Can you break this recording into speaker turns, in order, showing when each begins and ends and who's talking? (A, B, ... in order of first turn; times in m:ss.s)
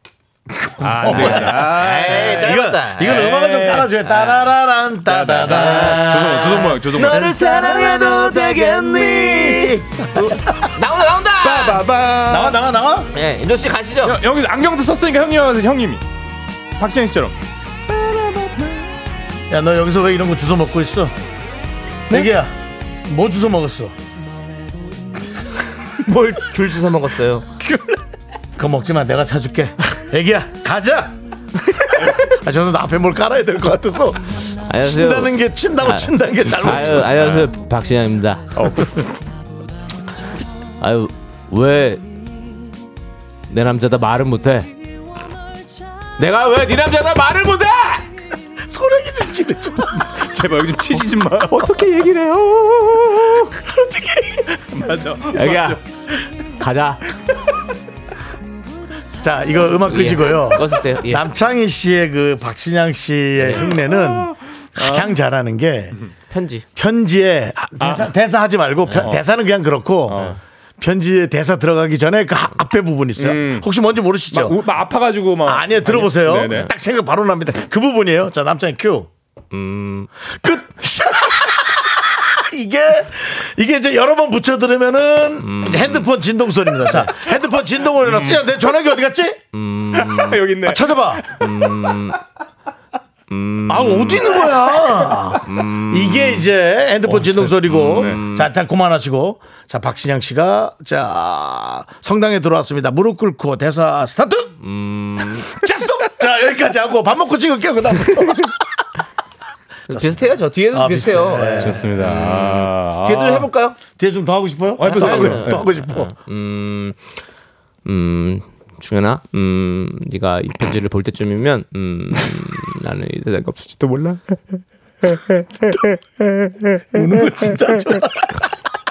0:00.5-0:10.3 A
0:00.8-0:03.9 B
0:01.1-0:04.5 C
0:05.1-0:07.4 B
0:05.4-0:11.8 C
0:11.4-0:12.6 B
0:12.3-0:13.1 A
0:13.1-0:14.2 C
0:14.0-0:16.0 B
0:16.8-0:17.4 B
0:19.5-0:21.2 A
0:22.1-0:24.0 A
0:26.0-0:27.5 C
0:28.6-0:31.2 A
0:32.0-0:37.3 A
0:34.7-0:38.8 C
0:36.6-0:37.5 B
0:38.6-0:39.1 B
0:40.8-0:42.0 C
0:43.5-0:44.7 C
0:46.2-0:48.1 C
0:48.6-0:50.3 A
0:50.1-0:51.8 B
0:51.5-0:53.5 C
0:53.6-0:54.5 A
0:54.6-0:55.8 B
0:55.3-0:55.8 C
0:56.6-0:57.0 C
0:59.2-1:06.0 A
0:59.9-1:01.2 C
1:03.4-1:03.8 C
1:03.9-1:05.2 B
1:06.3-1:06.7 C
1:06.8-1:10.2 A
1:07.8-1:08.1 B
1:08.9-1:09.1 C
1:10.1-1:10.4 B
1:10.1-1:10.4 C
1:10.8-1:14.6 A
1:13.2-1:13.7 B
1:14.3-1:16.7 B
1:15.4-1:19.1 A
1:19.5-1:20.1 C
1:20.2-1:29.4 A
1:25.4-1:26.0 C
1:28.1-1:28.3 B
1:29.5-1:30.4 C
1:29.9-1:31.7 B
1:30.6-1:31.2 A
1:31.4-1:32.2 C
1:33.3-1:34.4 C
1:33.7-1:44.5 A
1:35.4-1:36.5 C
1:37.1-1:38.2 B
1:37.7-1:38.5 C
1:44.6-1:45.5 C
1:45.5-1:48.6 A
1:49.9-1:53.8 C
1:49.9-1:51.9 A
1:51.6-1:53.5 B
1:54.0-1:56.1 A
1:54.8-1:55.8 B
1:54.8-1:57.0 C
1:57.8-2:04.2 C
2:06.9-2:08.5 A